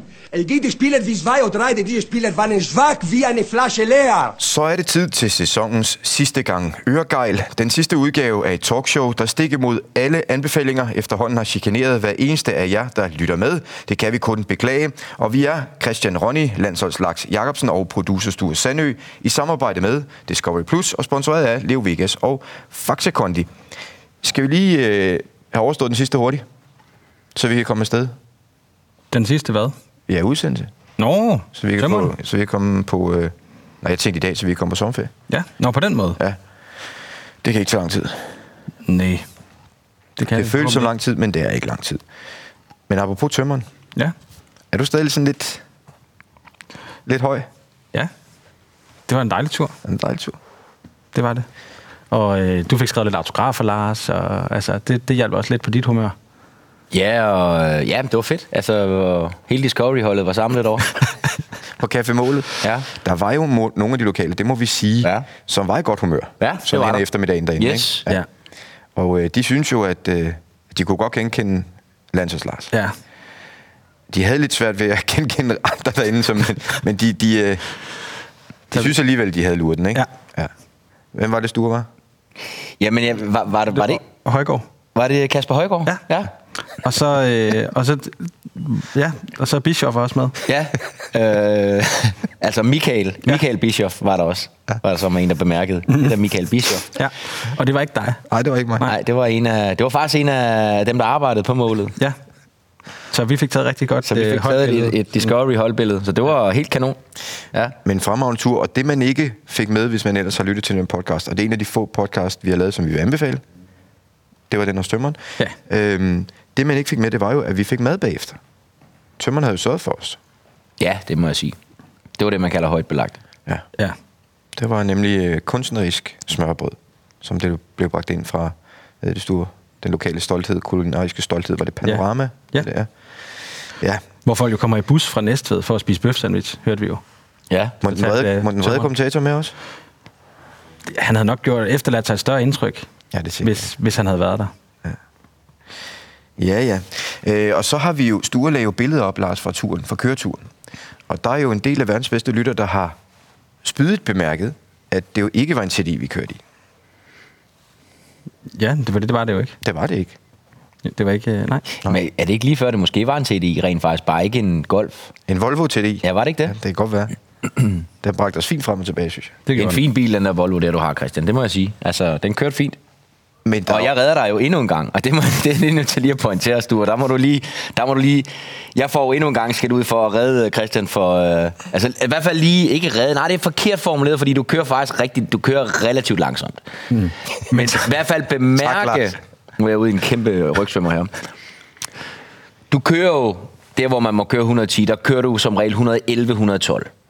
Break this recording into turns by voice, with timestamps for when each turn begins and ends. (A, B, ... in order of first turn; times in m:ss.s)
0:00.3-0:04.4 A
0:04.4-0:23.5 B
0:24.2-0:26.4 B
0:27.3-0:28.1 B
0:29.1-0:29.7 C
0:30.1-0:30.7 B
0:31.0-0:32.1 C
0:31.5-0:35.1 B
0:35.3-0:36.2 C
0:37.4-0:38.3 B
0:38.9-0:39.2 C
0:40.2-0:40.9 C
0:40.3-0:42.0 B
0:42.9-0:43.6 B
0:44.7-0:45.6 B
0:47.0-0:47.5 B
0:49.1-0:49.7 C
0:49.8-0:50.4 B
0:51.1-0:51.4 C
0:52.1-0:56.1 C
0:56.9-1:00.9 D
1:01.8-1:08.2 B
1:02.6-1:02.9 D
1:06.4-1:07.0 D
1:07.6-1:08.0 D
1:09.0-1:12.7 B
1:14.1-1:17.6 B
1:18.7-1:20.5 B
1:21.1-1:21.9 B
1:22.8-1:24.0 D
1:23.7-1:24.6 C
1:24.9-1:26.3 D
1:26.8-1:30.4 C
1:30.4-1:36.9 D
1:36.9-1:38.2 C
1:38.3-1:38.9 B
1:38.8-1:42.0 D
1:43.1-1:45.0 C
1:44.0-1:47.0 D
1:47.8-1:53.4 B
1:54.5-1:58.4 B
1:59.2-2:00.2 B
2:00.8-2:01.6 D
2:02.2-2:03.2 D
2:04.6-2:12.9 B
2:14.2-2:17.0 C
2:17.8-2:19.5 B
2:17.9-2:18.9 C
2:20.9-2:22.9 C
2:23.1-2:23.7 B
2:23.4-2:24.5 C
2:26.4-2:30.5 B
2:31.1-2:33.0 B
2:33.6-2:36.4 B
2:38.6-2:39.5 C
2:39.6-2:40.2 B
2:40.9-2:41.6 C
2:41.8-2:45.1 D
2:45.3-2:47.1 B
2:46.0-2:46.5 D
2:48.0-2:49.4 B
2:49.5-2:49.8 C
2:49.5-2:52.8 D
2:53.4-2:53.9 B
2:53.7-3:06.6 D
3:06.9-3:07.8 C
3:07.5-3:11.1 D
3:08.6-3:09.1 B
3:12.7-3:16.9 D